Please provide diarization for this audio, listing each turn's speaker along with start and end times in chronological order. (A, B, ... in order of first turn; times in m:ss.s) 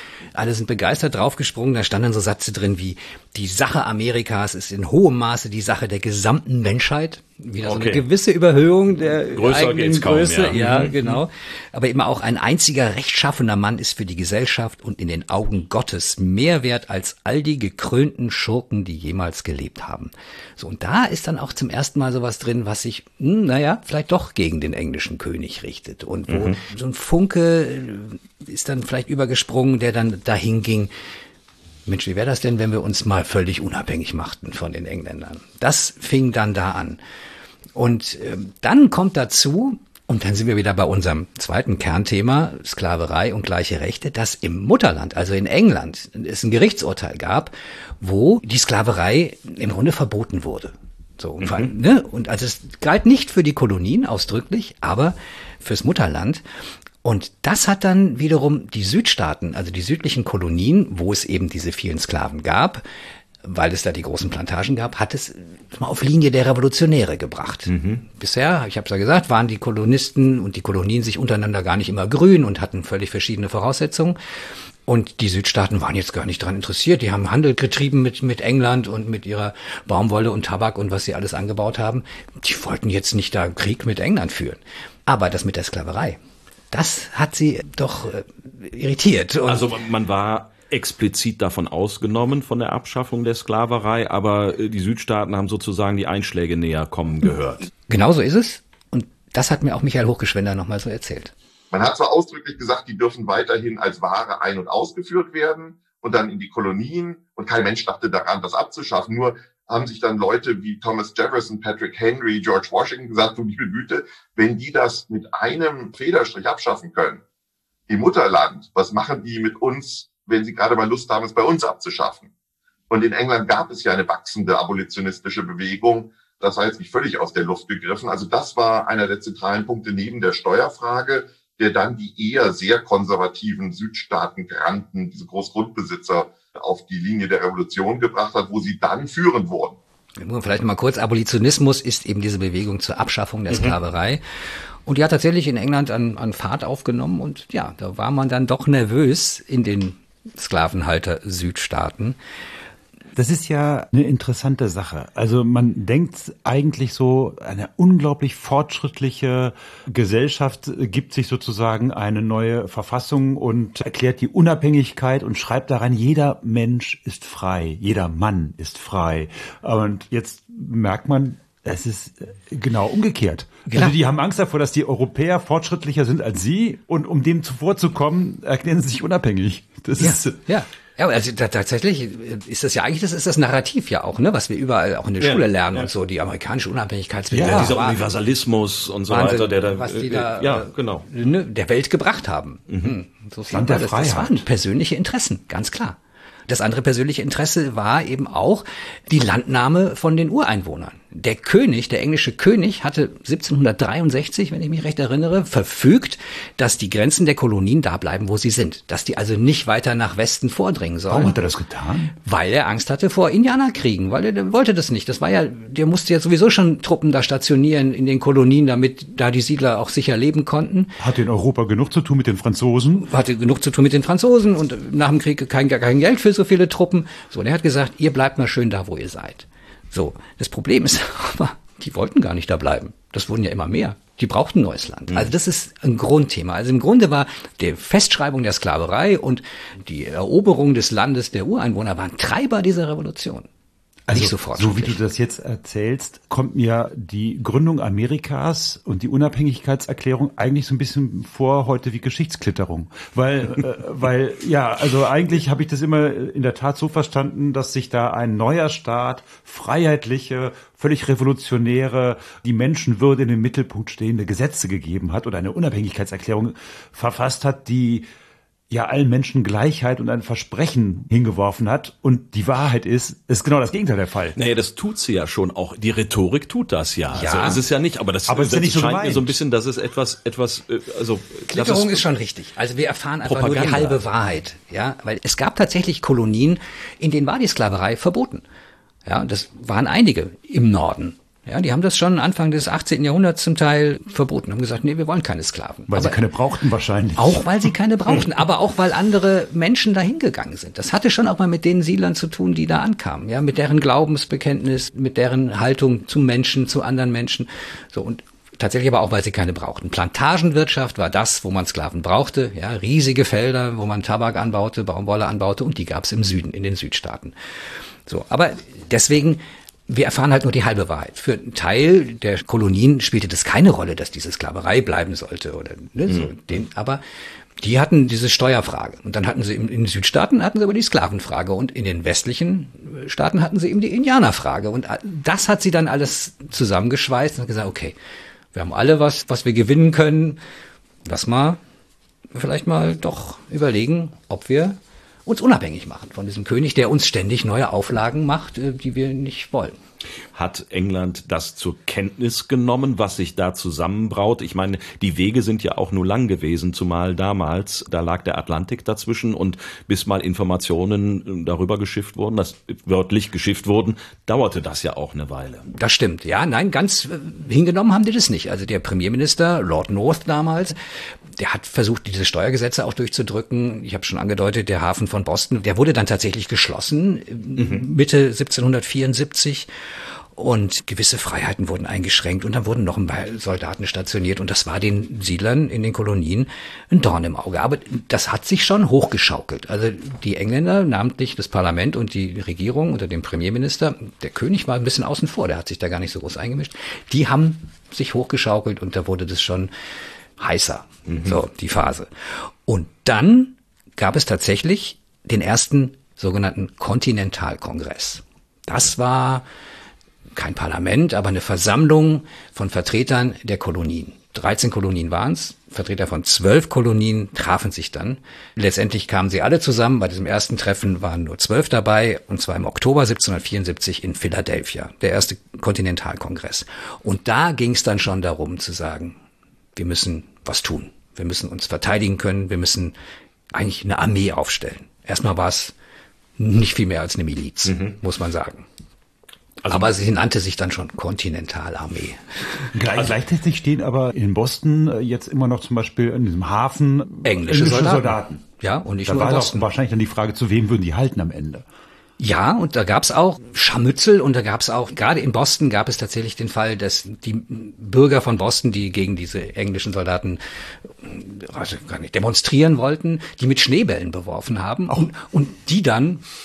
0:00.3-0:30.9 A
0:07.6-0:08.0 B
0:09.3-0:11.2 B
0:26.3-0:26.6 B
0:31.8-0:37.0 A
0:37.7-0:56.4 A
0:51.4-0:51.7 B
0:57.0-1:02.8 A
1:03.4-1:14.2 A
1:07.7-1:08.0 B
1:14.9-1:26.2 A
1:26.7-1:29.6 A
1:29.4-1:37.7 B
1:37.9-1:41.3 A
1:41.7-1:57.2 C
1:57.9-2:02.3 C
2:02.9-2:19.8 C
2:20.2-2:24.2 A
2:23.5-2:23.7 B
2:24.8-2:32.2 A
2:33.1-3:00.4 D
2:53.7-2:54.0 A
3:00.0-3:08.0 A
3:05.2-3:05.9 B
3:07.3-3:07.7 D
3:07.4-3:11.1 B
3:09.1-3:16.0 A
3:12.7-3:12.9 B
3:13.5-3:14.4 D
3:16.5-3:31.4 A
3:31.1-3:32.1 D
3:32.2-3:40.9 A
3:41.0-3:43.1 D
3:43.0-4:03.5 A
4:04.1-4:28.1 D
4:04.1-4:05.0 A
4:28.7-4:34.4 D
4:34.4-4:42.0 B
4:37.1-4:37.6 A
4:38.3-4:39.3 D
4:41.5-4:48.4 A
4:43.2-4:44.0 B
4:49.0-4:56.2 A
4:55.9-4:57.7 D
4:57.2-5:17.3 A
5:18.0-5:27.0 A
5:26.1-5:26.6 B
5:27.6-5:37.9 A
5:38.5-5:40.4 A
5:41.0-5:41.6 A
5:42.3-5:49.7 A
5:50.3-6:05.7 B
6:05.7-6:10.8 A
6:11.3-6:19.7 A
6:17.6-6:17.8 B
6:20.4-6:39.7 A
6:40.4-6:49.4 A
6:41.1-6:41.4 B
6:50.3-7:09.2 A
7:09.8-7:12.9 A
7:13.5-7:15.7 A
7:16.4-7:18.6 A
7:17.6-7:18.0 B
7:19.6-7:19.9 B
7:19.7-7:22.7 A
7:22.7-7:28.4 D
7:27.2-7:29.6 A
7:29.0-7:31.6 D
7:32.2-7:40.4 A
7:41.0-7:46.2 A